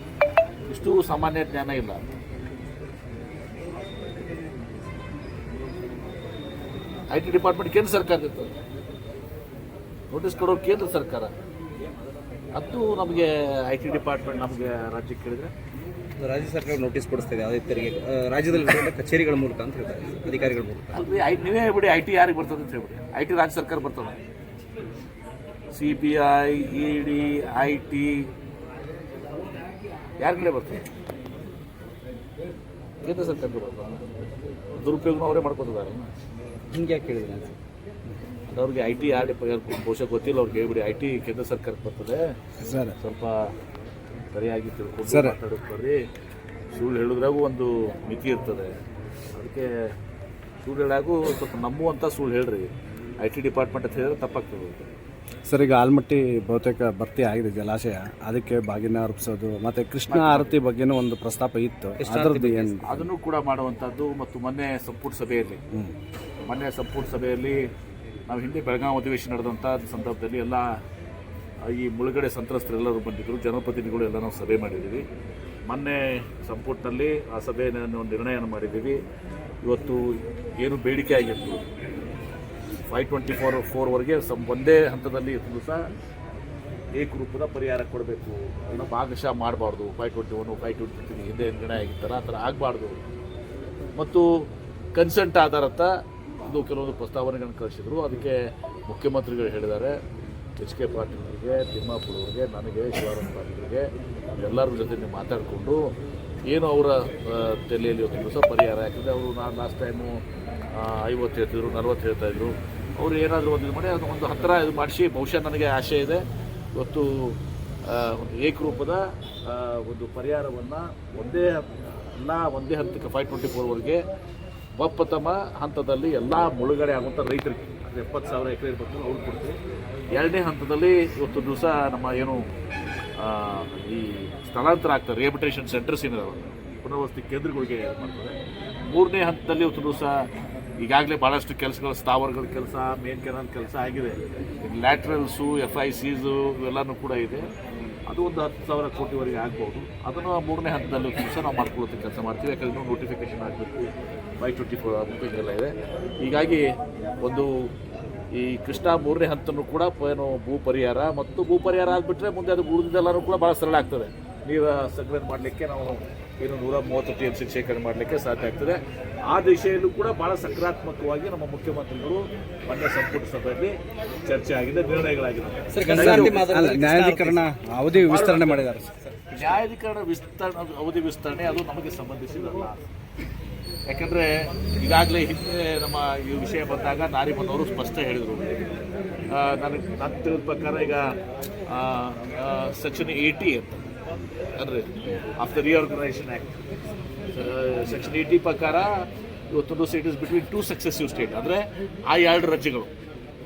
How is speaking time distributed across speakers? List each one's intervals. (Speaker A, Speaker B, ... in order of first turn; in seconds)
Speaker A: 0.7-2.0, 7.1-8.6, 10.1-11.3, 12.6-15.5, 20.9-24.2, 25.7-28.3, 30.2-30.9, 33.0-34.1, 34.8-36.1, 38.5-42.2, 43.0-43.5, 44.3-46.0, 46.7-48.7, 49.4-49.7, 50.6-52.7, 53.2-54.9, 60.1-60.5, 62.9-65.6, 66.5-67.7, 68.3-70.7, 71.7-75.0, 75.7-79.0, 79.6-81.7, 82.9-85.8, 87.0-93.0, 94.0-94.3, 95.0-95.9, 96.5-100.0, 100.6-103.9, 104.4-105.8, 106.5-110.2, 110.7-116.2, 116.8-124.0, 124.8-129.6, 130.1-132.5, 133.2-138.4, 138.9-140.3, 140.8-147.5, 148.1-156.7, 157.2-157.7, 158.3-173.8, 174.3-176.5, 178.0-178.6, 179.3-182.8, 183.9-188.5, 189.3-191.2, 191.7-193.9, 194.6-196.6, 197.3-198.9, 199.5-202.9
Speaker B: 16.2-21.1, 36.7-37.6, 62.0-62.8, 175.7-177.4
Speaker C: 42.6-43.0, 45.1-45.4, 55.5-63.1, 175.9-178.9